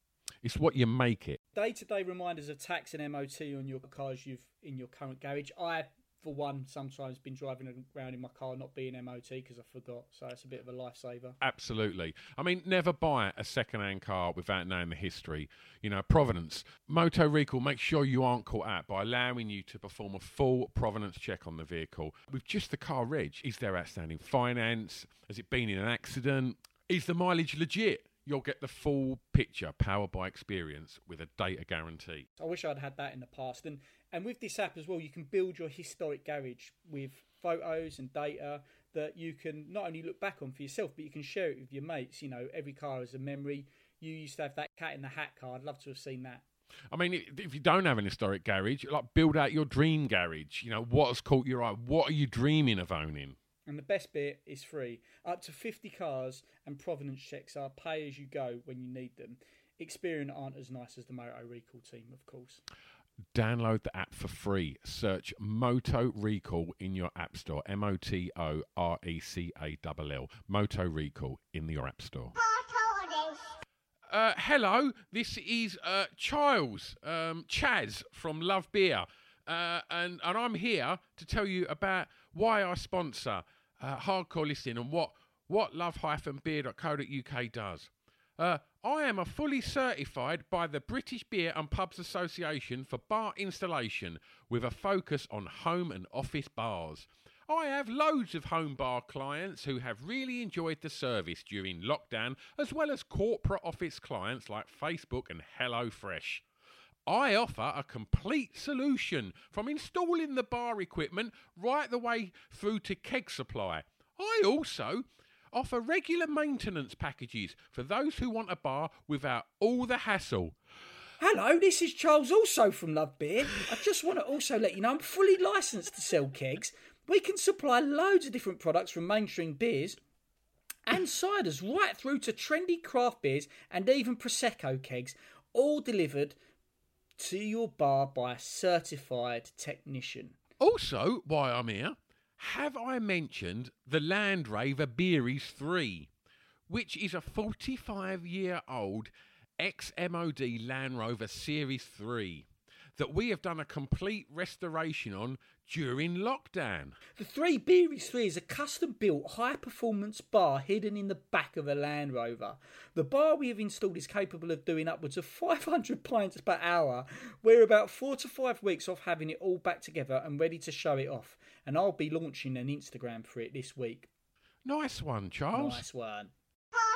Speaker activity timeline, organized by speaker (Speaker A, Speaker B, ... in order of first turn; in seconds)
Speaker A: 0.4-1.4, 11.4-32.3, 46.9-53.4, 63.3-72.3, 74.1-106.4, 107.1-120.5, 140.6-146.1, 146.7-157.0, 174.6-175.8
Speaker B: 1.5-11.4, 32.4-46.4, 53.6-62.6, 121.2-130.0, 130.9-136.3, 137.2-140.4, 157.2-174.1, 175.5-176.3